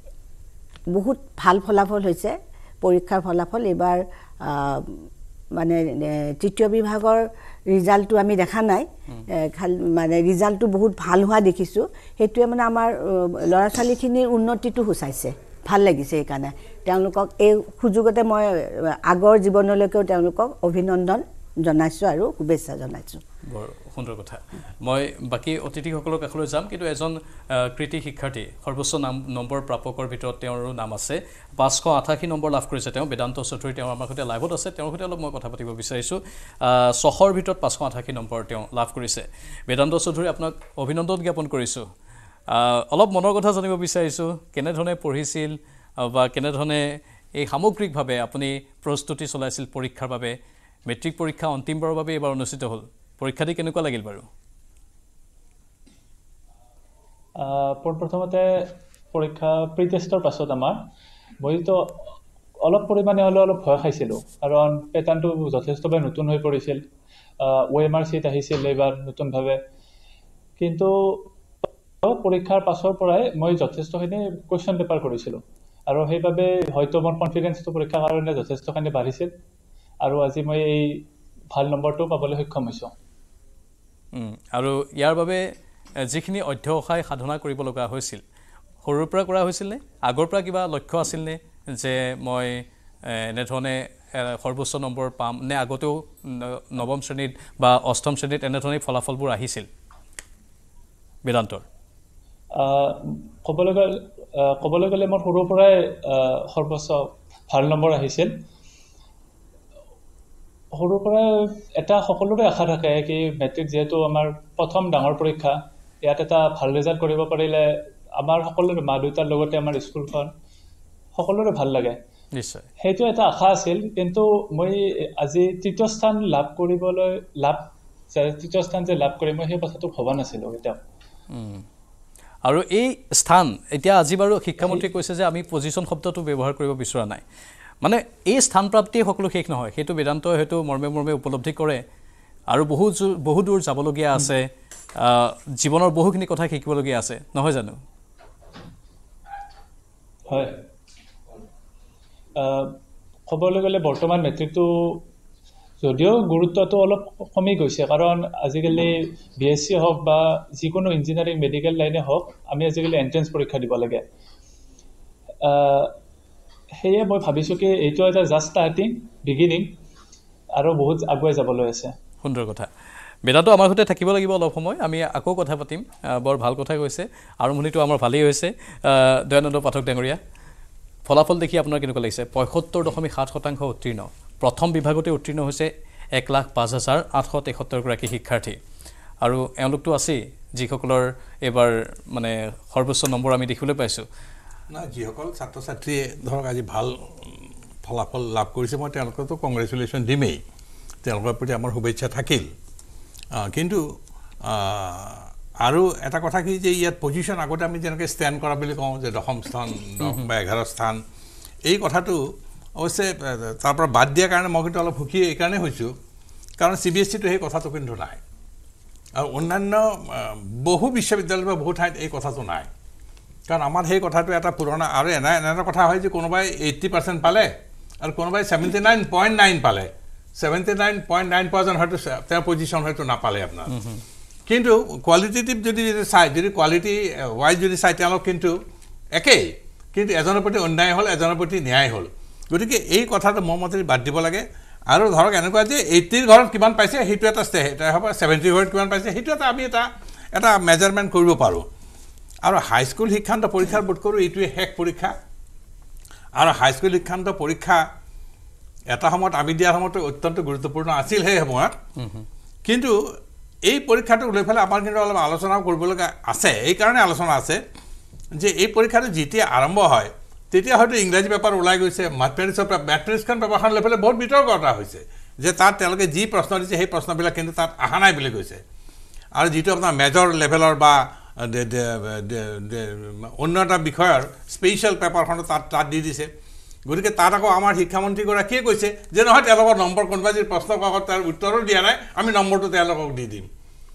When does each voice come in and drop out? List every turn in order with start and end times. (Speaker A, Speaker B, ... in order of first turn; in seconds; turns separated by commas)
Speaker A: 0.9-5.0, Speaker A: 5.5-18.5, Speaker A: 19.1-23.2, Speaker B: 23.5-41.9, Speaker B: 42.5-46.8, Speaker B: 47.4-50.4, Speaker B: 50.9-54.3, Speaker C: 57.4-60.8, Speaker C: 61.4-61.8, Speaker C: 62.6-66.8, Speaker C: 67.4-69.6, Speaker C: 70.6-71.3, Speaker C: 72.0-79.3, Speaker C: 80.0-82.9, Speaker B: 84.1-85.5, Speaker B: 86.0-88.2, Speaker B: 88.8-99.7, Speaker B: 101.2-101.6, Speaker C: 102.6-108.3, Speaker C: 110.7-117.6, Speaker C: 118.2-120.3, Speaker C: 121.1-122.0, Speaker B: 122.3-122.7, Speaker C: 122.8-130.8, Speaker B: 131.3-131.7, Speaker B: 132.4-137.2, Speaker B: 137.8-141.8, Speaker B: 142.5-147.8, Speaker C: 150.3-150.6, Speaker C: 152.4-152.8, Speaker C: 153.3-155.0, Speaker C: 155.8-164.0, Speaker C: 165.4-165.9, Speaker C: 166.8-169.7, Speaker C: 170.6-171.9, Speaker B: 172.2-172.7, Speaker B: 173.2-180.2, Speaker B: 181.1-188.6, Speaker B: 189.2-194.0, Speaker D: 194.7-200.4, Speaker D: 201.0-202.5, Speaker D: 203.3-203.8, Speaker D: 204.4-211.0, Speaker B: 210.0-210.3, Speaker D: 211.7-212.2, Speaker D: 212.8-215.9, Speaker D: 216.6-218.2, Speaker D: 219.2-222.7, Speaker D: 223.5-233.7, Speaker B: 233.7-234.0, Speaker D: 234.5-238.6, Speaker D: 239.1-251.6, Speaker D: 252.4-255.1, Speaker D: 256.4-257.8, Speaker D: 258.9-261.7, Speaker B: 262.0-262.2, Speaker D: 262.6-262.9, Speaker D: 263.7-267.6, Speaker D: 268.3-278.6, Speaker D: 279.4-286.3, Speaker D: 286.9-293.5